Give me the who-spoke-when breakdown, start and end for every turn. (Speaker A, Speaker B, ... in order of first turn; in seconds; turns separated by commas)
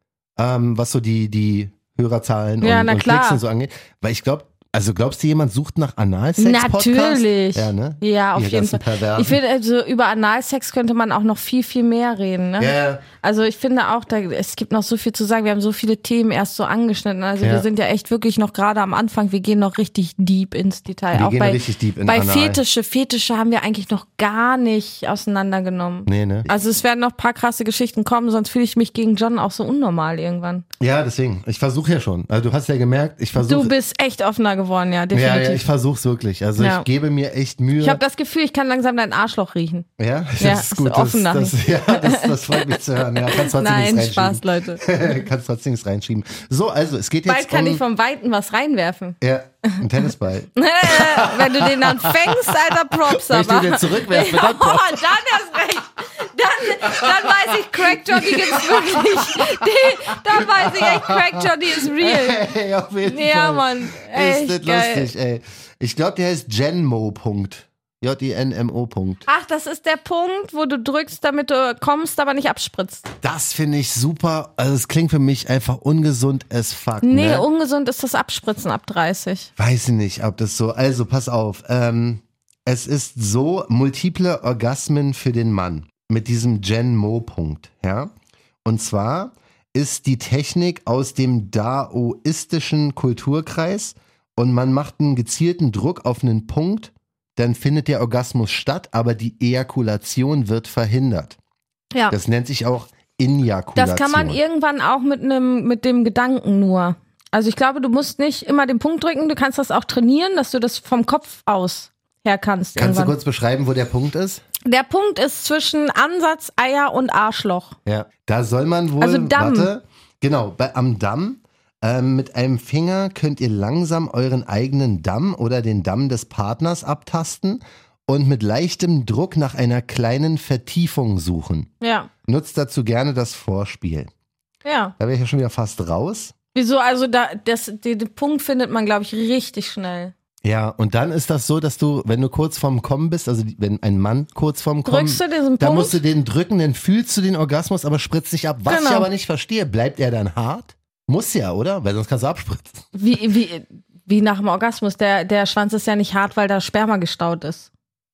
Speaker A: 0.3-9.4, Speaker B: 2.6-3.4, Speaker B: 6.4-30.6, Speaker A: 12.6-13.0, Speaker A: 17.4-17.6, Speaker A: 21.1-22.6, Speaker A: 26.1-26.5, Speaker A: 30.8-33.7, Speaker B: 33.4-35.7, Speaker A: 35.1-38.0, Speaker B: 36.6-36.9, Speaker B: 37.8-39.9, Speaker A: 40.0-47.8, Speaker B: 40.4-44.9, Speaker B: 47.2-49.8, Speaker A: 49.2-55.1, Speaker B: 50.5-62.4, Speaker A: 56.7-69.2, Speaker B: 63.0-65.1, Speaker B: 69.2-73.0, Speaker A: 73.2-77.5, Speaker B: 77.0-79.5, Speaker A: 79.6-88.1, Speaker A: 88.6-101.4, Speaker A: 102.1-104.4, Speaker B: 103.8-113.2, Speaker A: 112.8-114.4, Speaker B: 114.6-117.8, Speaker A: 117.8-131.7, Speaker B: 119.0-119.7, Speaker B: 131.8-132.1, Speaker A: 132.2-134.1, Speaker B: 134.6-134.9, Speaker A: 135.0-136.3, Speaker B: 136.5-140.1, Speaker A: 140.4-152.8, Speaker B: 144.8-146.0, Speaker B: 148.7-149.1, Speaker B: 152.9-157.7